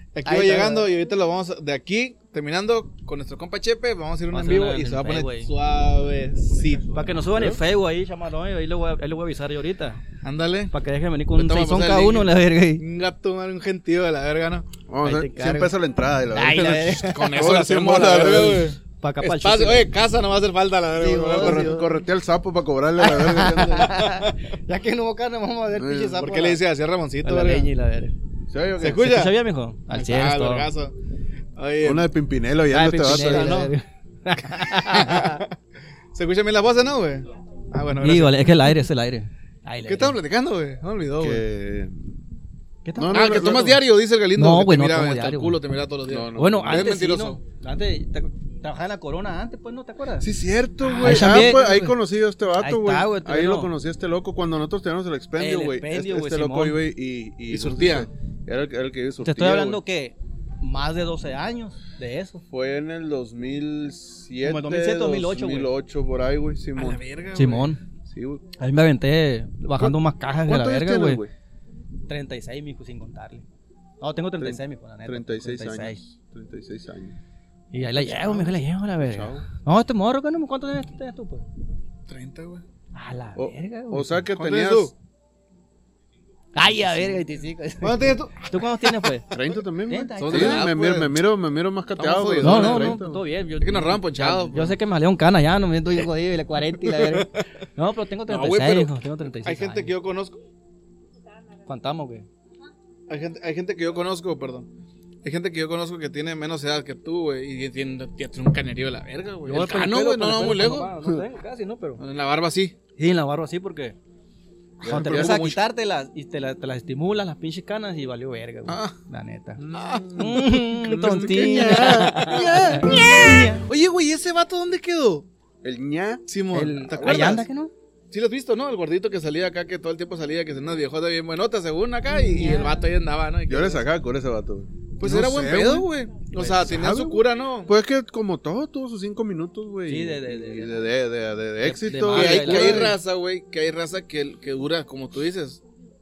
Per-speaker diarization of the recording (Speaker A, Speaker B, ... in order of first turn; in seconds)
Speaker A: 0.1-7.2, 10.2-10.7, 11.3-14.7, 17.1-21.8, 23.9-24.3, 26.2-27.7, 28.8-29.4, 29.9-30.9, 31.6-32.1, 33.0-33.7, 34.6-35.6, 36.1-38.7, 39.9-41.4, 43.1-47.4, 50.8-52.0, 57.5-58.1, 66.8-67.7, 82.1-82.6, 84.4-84.9, 87.8-89.1, 90.2-91.2, 92.0-93.0, 93.6-94.8, 96.8-97.4, 98.3-100.4, 103.1-104.7, 105.2-110.9, 112.0-112.8, 114.9-115.6, 118.7-119.0, 119.7-125.3, 126.3-127.4, 128.1-133.9, 135.0-137.7, 142.1-145.6
Speaker B: 0.2-0.9, 4.3-5.5, 6.9-10.0, 10.7-12.8, 15.0-15.7, 16.3-17.3, 19.0-19.9, 20.9-22.0, 23.0-26.6, 27.2-28.2, 28.8-30.7, 32.7-35.4, 38.0-40.2, 42.9-43.7, 44.4-45.6, 46.4-50.3, 51.0-51.8, 52.6-53.7, 55.4-56.8, 59.2-62.4, 64.4-65.7, 67.4-67.8, 68.6-71.2, 72.1-73.5, 74.0-76.0, 77.7-81.5, 82.9-84.3, 86.5-89.3, 89.9-90.7, 92.4-99.9, 101.7-102.3, 109.5-112.0, 113.0-114.0, 114.8-119.6, 120.2-123.7, 126.5-127.7, 132.2-132.8, 139.9-140.9, 141.6-142.9
Speaker C: 7.3-7.6, 14.9-18.8, 21.4-24.0, 25.8-26.3, 28.5-29.1, 31.8-33.7, 41.2-42.2, 43.0-43.8, 46.1-46.9, 50.2-59.8, 62.5-67.0, 68.1-68.5, 69.8-71.3, 74.4-77.2, 77.8-79.5, 83.4-84.9, 89.3-93.2, 114.8-115.5, 119.6-123.0, 125.6-126.2, 126.8-127.4, 133.5-143.0